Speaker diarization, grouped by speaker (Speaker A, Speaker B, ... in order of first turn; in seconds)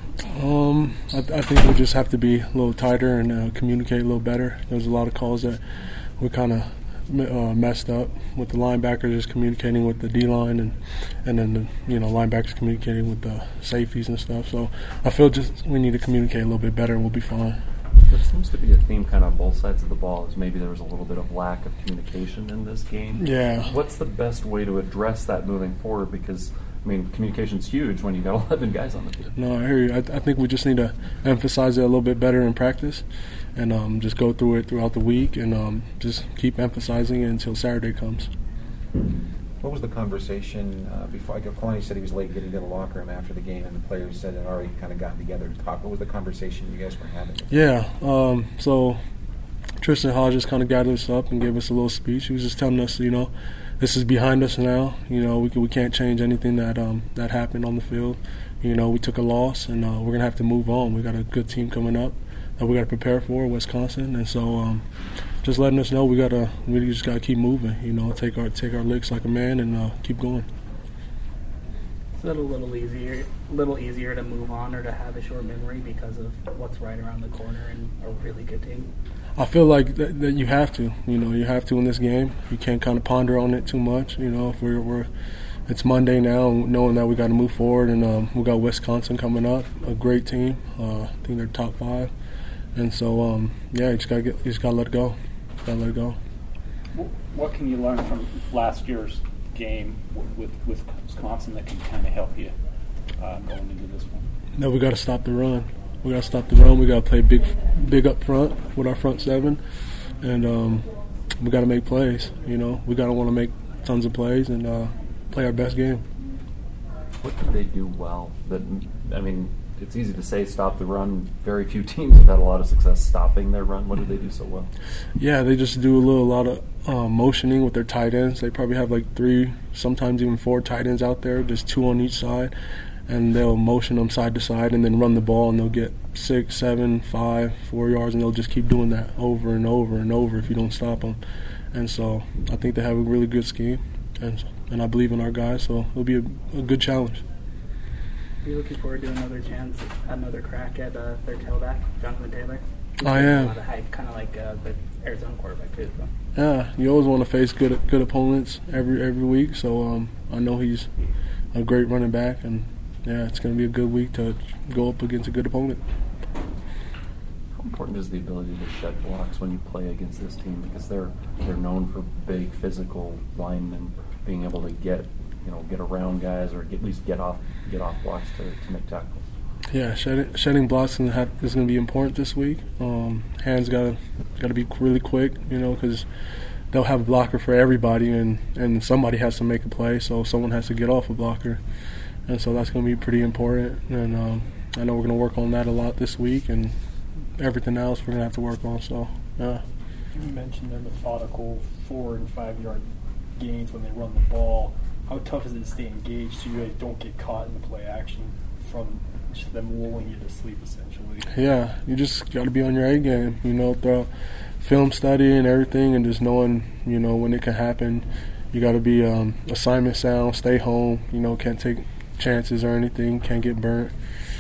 Speaker A: 0.2-5.6, 6.2-17.6, 23.2-23.7, 29.4-33.0, 33.5-38.3, 47.5-49.0, 49.8-64.8, 65.4-70.5, 79.4-85.1, 85.7-92.1, 92.8-96.2, 104.6-109.6, 110.2-110.9, 111.4-116.0, 125.2-132.5, 133.1-141.2, 141.7-147.2, 153.0-153.6, 156.3-160.9, 161.5-165.8, 179.7-186.1, 186.7-191.6, 192.3-196.8, 197.4-199.6, 211.3-223.9
Speaker B: 18.0-29.4, 117.2-124.7, 167.6-179.2
Speaker C: 39.6-47.5
Speaker D: 72.2-78.9, 148.4-156.1
Speaker E: 96.9-102.5, 103.2-104.3
Speaker F: 200.1-211.3